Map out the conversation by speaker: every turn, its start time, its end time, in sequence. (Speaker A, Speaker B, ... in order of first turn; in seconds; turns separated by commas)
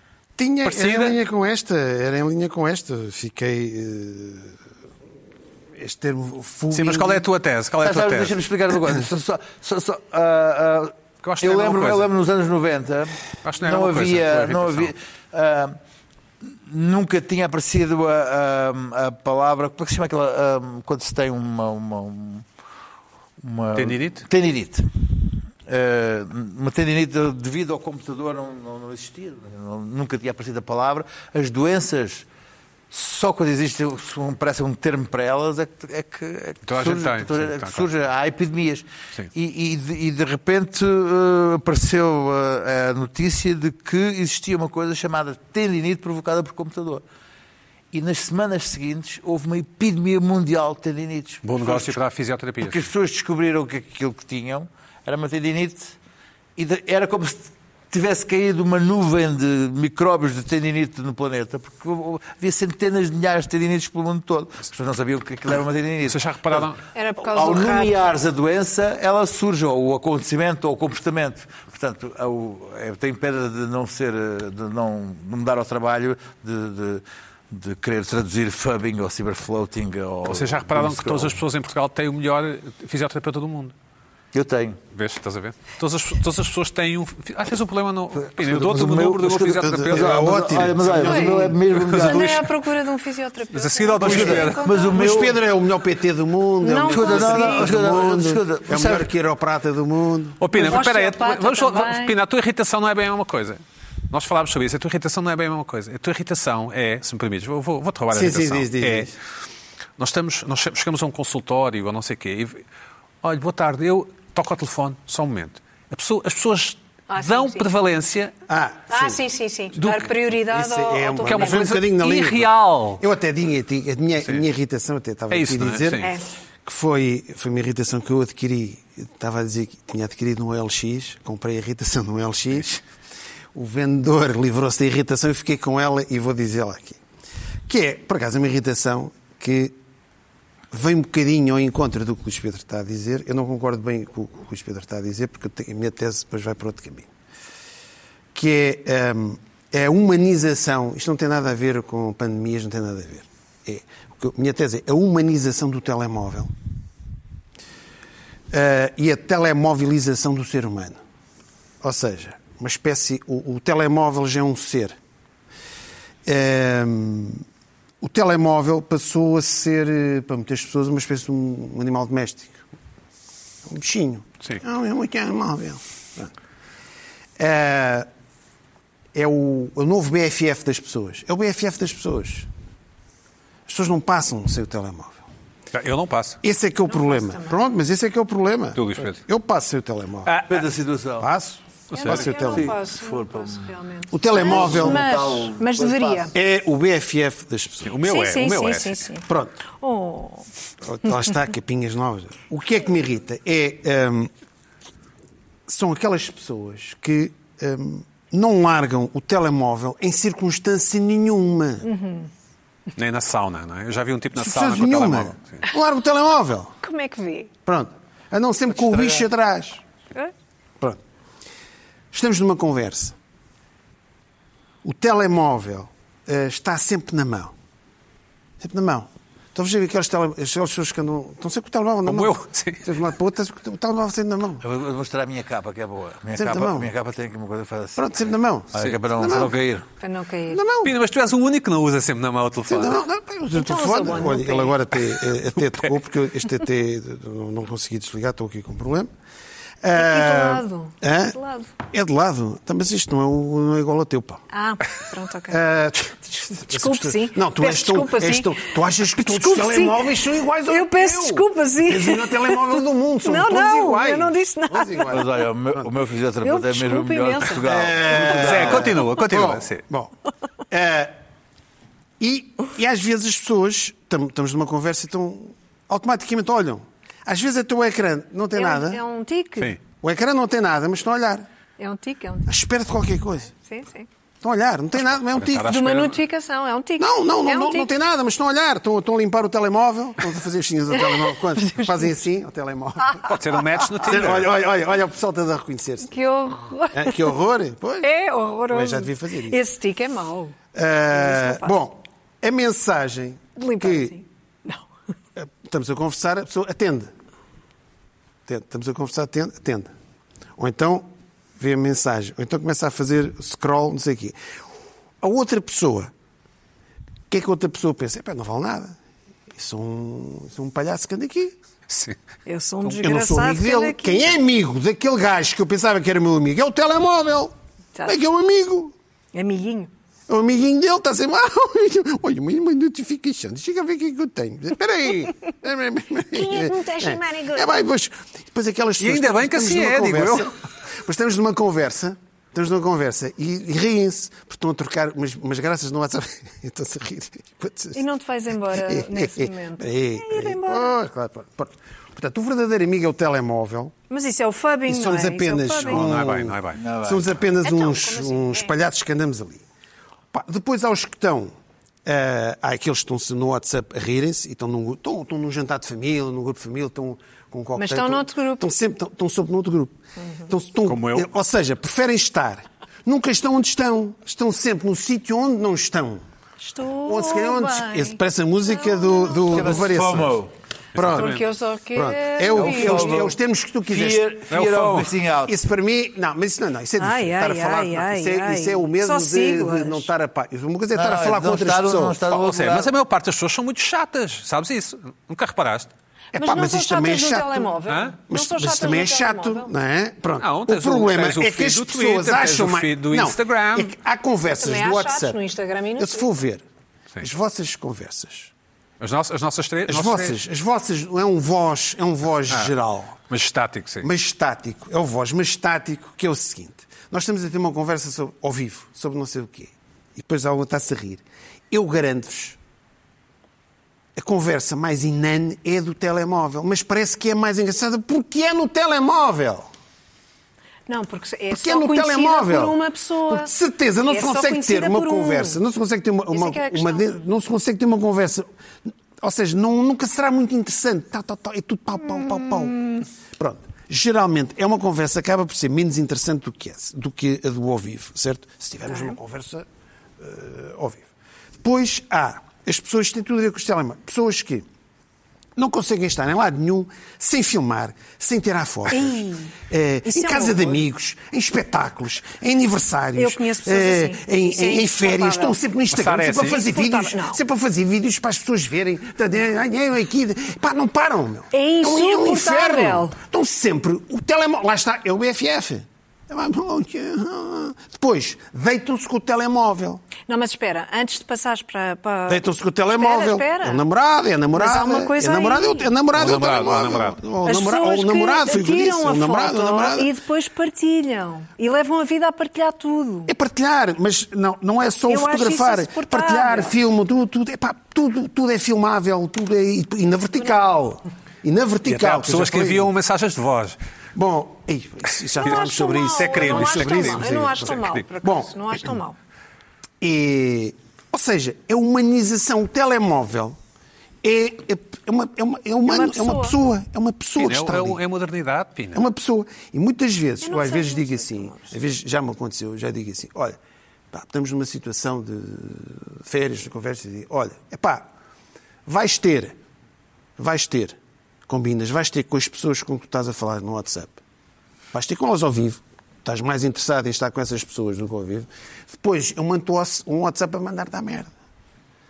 Speaker A: 0.4-4.5, Speaker B: 0.6-1.2, Speaker A: 5.8-7.2, Speaker B: 6.7-8.4, Speaker C: 7.8-15.8, Speaker B: 11.2-12.1, Speaker B: 13.4-14.9, Speaker C: 16.4-22.5, Speaker C: 23.4-32.3, Speaker B: 23.8-24.3, Speaker C: 32.9-47.0, Speaker B: 36.6-37.9, Speaker C: 47.9-52.0, Speaker B: 51.4-52.9, Speaker C: 52.6-56.0, Speaker C: 56.6-66.7, Speaker B: 66.1-66.8, Speaker D: 66.9-68.0, Speaker C: 67.2-81.4, Speaker B: 80.3-83.7, Speaker C: 84.3-84.8, Speaker B: 84.9-91.0, Speaker C: 88.2-92.5, Speaker A: 89.6-91.5, Speaker D: 91.0-95.3, Speaker B: 91.7-92.3, Speaker B: 93.5-94.7, Speaker C: 94.0-95.4, Speaker A: 94.0-100.4, Speaker D: 96.6-97.8, Speaker C: 96.9-99.1, Speaker B: 100.4-109.1, Speaker D: 100.5-102.2, Speaker A: 108.1-109.1, Speaker B: 110.0-112.6, Speaker B: 113.2-118.3, Speaker D: 117.1-117.7, Speaker A: 118.5-119.2, Speaker D: 118.9-121.8, Speaker B: 119.8-120.1, Speaker A: 120.5-126.1, Speaker B: 121.2-123.0, Speaker B: 125.3-126.2, Speaker D: 126.0-126.3, Speaker A: 126.7-132.8, Speaker A: 133.5-137.0, Speaker A: 137.7-139.8, Speaker A: 140.7-147.1, Speaker A: 148.3-156.5, Speaker A: 158.5-161.0, Speaker A: 161.8-165.0, Speaker A: 166.3-167.4, Speaker A: 168.0-172.6, Speaker A: 173.7-176.3, Speaker A: 177.4-178.1, Speaker A: 179.1-182.5, Speaker A: 183.7-185.2, Speaker B: 185.7-186.4, Speaker A: 186.4-190.5, Speaker D: 186.9-187.6, Speaker B: 188.8-189.2, Speaker B: 190.3-190.6, Speaker C: 190.5-191.3, Speaker A: 191.2-192.7, Speaker B: 191.9-192.2, Speaker D: 191.9-196.3, Speaker C: 192.2-193.7, Speaker A: 194.1-195.0, Speaker C: 194.3-196.3, Speaker A: 196.3-197.9, Speaker B: 197.8-199.0, Speaker D: 198.0-200.5, Speaker A: 199.3-199.6, Speaker A: 200.8-204.3, Speaker A: 205.7-211.9, Speaker D: 211.8-212.3, Speaker B: 213.0-215.7, Speaker A: 214.4-216.7, Speaker D: 216.8-217.5, Speaker A: 217.7-219.8, Speaker A: 222.1-223.2, Speaker A: 224.8-227.5, Speaker A: 228.6-234.6, Speaker B: 232.1-232.9, Speaker C: 234.6-239.9, Speaker A: 236.4-236.9, Speaker A: 238.0-239.5, Speaker D: 240.0-240.6, Speaker A: 240.5-240.9, Speaker B: 240.8-243.0, Speaker A: 242.7-249.1, Speaker D: 243.5-244.9, Speaker A: 249.8-254.4, Speaker D: 249.9-251.7, Speaker D: 254.5-255.6, Speaker A: 255.5-265.9, Speaker D: 256.3-265.3, Speaker C: 265.1-269.0, Speaker D: 266.4-267.7, Speaker A: 267.6-270.1, Speaker B: 268.2-269.8, Speaker A: 270.7-271.1, Speaker A: 272.2-279.0, Speaker D: 278.5-279.8, Speaker A: 280.0-281.5, Speaker D: 281.8-282.5, Speaker A: 282.5-283.5, Speaker D: 283.5-284.1, Speaker A: 284.4-285.7, Speaker B: 285.1-286.2, Speaker D: 285.6-287.9, Speaker A: 287.0-296.1, Speaker D: 290.9-292.2, Speaker B: 293.2-294.5, Speaker D: 296.1-297.3, Speaker A: 296.9-298.1, Speaker D: 298.0-300.6, Speaker A: 298.7-299.6, Speaker A: 300.7-304.2, Speaker D: 301.1-301.8, Speaker D: 303.6-304.8, Speaker A: 305.4-307.1, Speaker A: 308.5-309.9, Speaker A: 310.6-314.4, Speaker A: 315.2-316.1, Speaker A: 317.3-319.0, Speaker A: 319.5-321.6, Speaker B: 321.9-322.2, Speaker D: 322.5-324.4, Speaker A: 322.9-327.5, Speaker A: 328.1-328.9, Speaker D: 329.3-329.9, Speaker A: 330.3-348.0, Speaker D: 336.3-337.8, Speaker B: 339.0-340.5, Speaker D: 347.9-350.9, Speaker A: 348.7-353.9, Speaker D: 354.1-356.1, Speaker A: 354.9-359.6, Speaker B: 355.9-356.8, Speaker C: 356.8-357.4, Speaker D: 357.6-358.7, Speaker A: 360.3-361.5, Speaker A: 362.1-376.2, Speaker D: 367.8-368.7, Speaker B: 370.9-371.3, Speaker D: 376.6-379.8, Speaker A: 377.1-380.4, Speaker C: 379.5-380.5, Speaker B: 380.9-381.5, Speaker A: 380.9-381.4, Speaker D: 381.0-383.2, Speaker A: 381.9-384.3, Speaker C: 382.5-385.6, Speaker B: 384.5-385.1, Speaker A: 385.5-392.2, Speaker D: 387.0-390.1, Speaker C: 390.9-392.9, Speaker B: 392.3-395.9, Speaker A: 396.3-397.7, Speaker D: 396.3-399.7, Speaker B: 397.9-398.2, Speaker A: 398.3-405.4, Speaker B: 400.4-403.9, Speaker D: 404.5-406.3, Speaker A: 406.0-406.6, Speaker A: 407.2-408.5, Speaker B: 409.0-410.4, Speaker A: 409.9-413.2, Speaker B: 413.3-414.1, Speaker A: 414.0-422.6, Speaker A: 424.2-429.7, Speaker D: 430.9-433.5, Speaker A: 431.5-432.8, Speaker A: 433.3-438.5, Speaker D: 434.1-435.6, Speaker D: 436.3-437.2, Speaker A: 439.2-449.7, Speaker D: 448.9-449.2, Speaker A: 450.2-451.1, Speaker A: 451.6-454.7, Speaker A: 455.6-480.1, Speaker D: 458.9-459.6, Speaker D: 460.1-460.8, Speaker D: 463.1-465.6, Speaker B: 465.9-466.6, Speaker D: 466.4-467.4, Speaker D: 471.5-473.1, Speaker D: 480.3-483.8, Speaker A: 482.3-490.1, Speaker D: 484.5-485.9, Speaker B: 486.1-487.2, Speaker D: 487.4-493.3, Speaker A: 493.3-502.9, Speaker D: 495.1-496.7, Speaker B: 501.9-503.8, Speaker A: 504.2-508.9, Speaker D: 505.4-509.2, Speaker B: 505.4-508.1, Speaker A: 510.0-513.6, Speaker A: 514.2-518.0, Speaker D: 515.9-516.6, Speaker B: 517.4-519.0, Speaker A: 518.9-523.6, Speaker D: 520.4-521.7, Speaker A: 524.1-528.1, Speaker A: 528.9-529.5, Speaker A: 530.4-531.0, Speaker A: 531.5-534.2, Speaker A: 534.9-541.3